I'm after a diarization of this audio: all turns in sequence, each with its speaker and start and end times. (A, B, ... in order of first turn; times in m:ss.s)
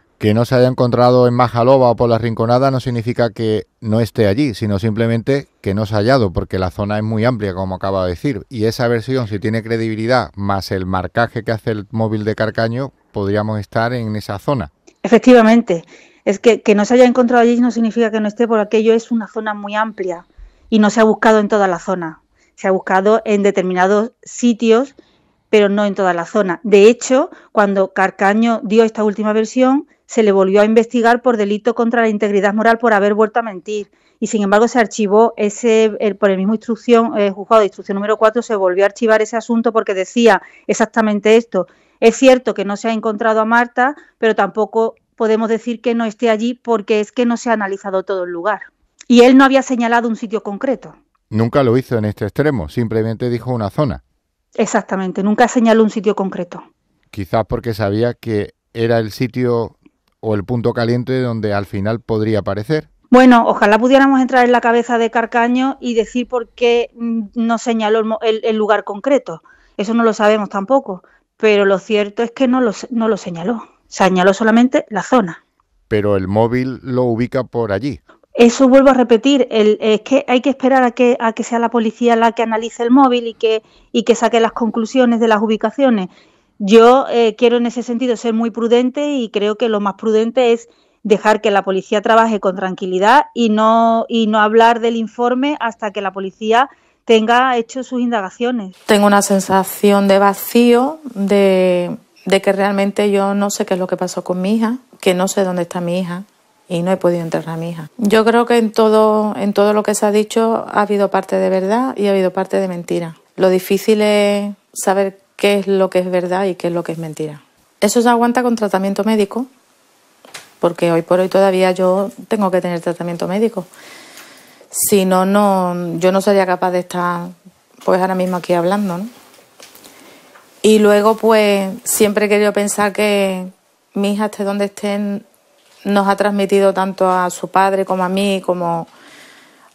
0:00.2-0:14.7 A
0:15.0-0:24.9 B
0:25.5-0:51.0 B
0:51.3-0:54.0 A
0:54.6-0:56.7 B
0:57.1-1:02.9 A
1:03.1-1:15.4 B
1:15.9-1:18.0 A
1:18.4-1:38.7 B
1:38.9-1:59.5 C
2:00.6-2:03.7 C
2:04.7-2:09.1 C
2:10.6-2:15.2 C
2:15.9-2:18.9 C